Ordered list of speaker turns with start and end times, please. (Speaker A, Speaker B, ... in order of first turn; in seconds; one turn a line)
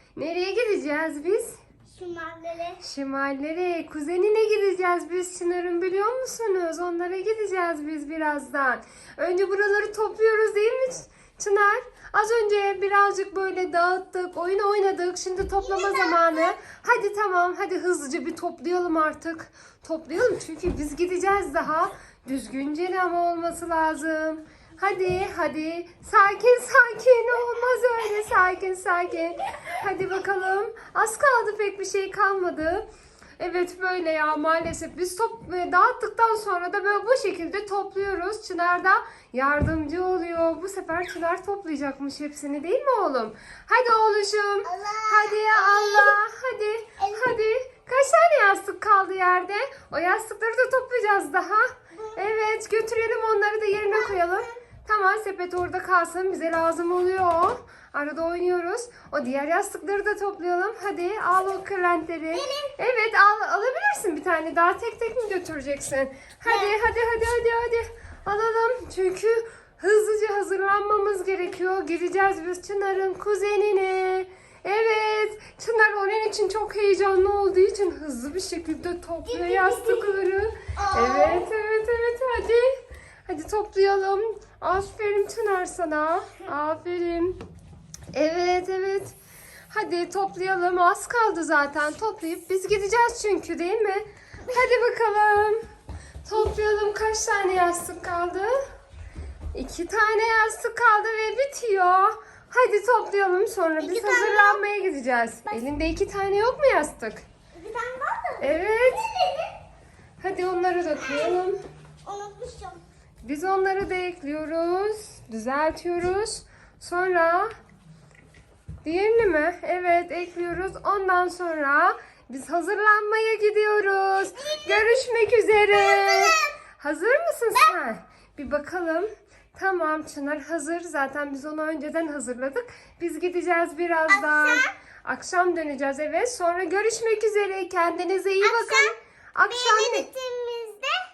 Speaker A: 0.1-1.6
Speaker B: 1.9-2.8
Speaker A: 2.8-32.9
Speaker B: 15.6-16.6
Speaker A: 33.4-87.4
Speaker B: 44.6-46.2
Speaker B: 47.0-47.4
Speaker B: 51.9-52.2
Speaker B: 53.9-54.6
Speaker B: 62.3-62.7
Speaker B: 66.4-66.8
Speaker B: 79.2-80.2
Speaker B: 80.7-81.5
Speaker A: 88.1-89.1
Speaker A: 89.7-95.6
Speaker A: 96.2-98.5
Speaker A: 99.5-107.2
Speaker B: 103.8-104.6
Speaker B: 107.5-109.5
Speaker A: 108.4-109.1
Speaker A: 110.2-111.6
Speaker B: 111.0-111.4
Speaker B: 112.0-112.8
Speaker A: 113.2-117.5
Speaker A: 118.8-140.1
Speaker B: 124.2-125.0
Speaker B: 125.7-126.5
Speaker B: 134.1-134.7
Speaker B: 138.4-141.0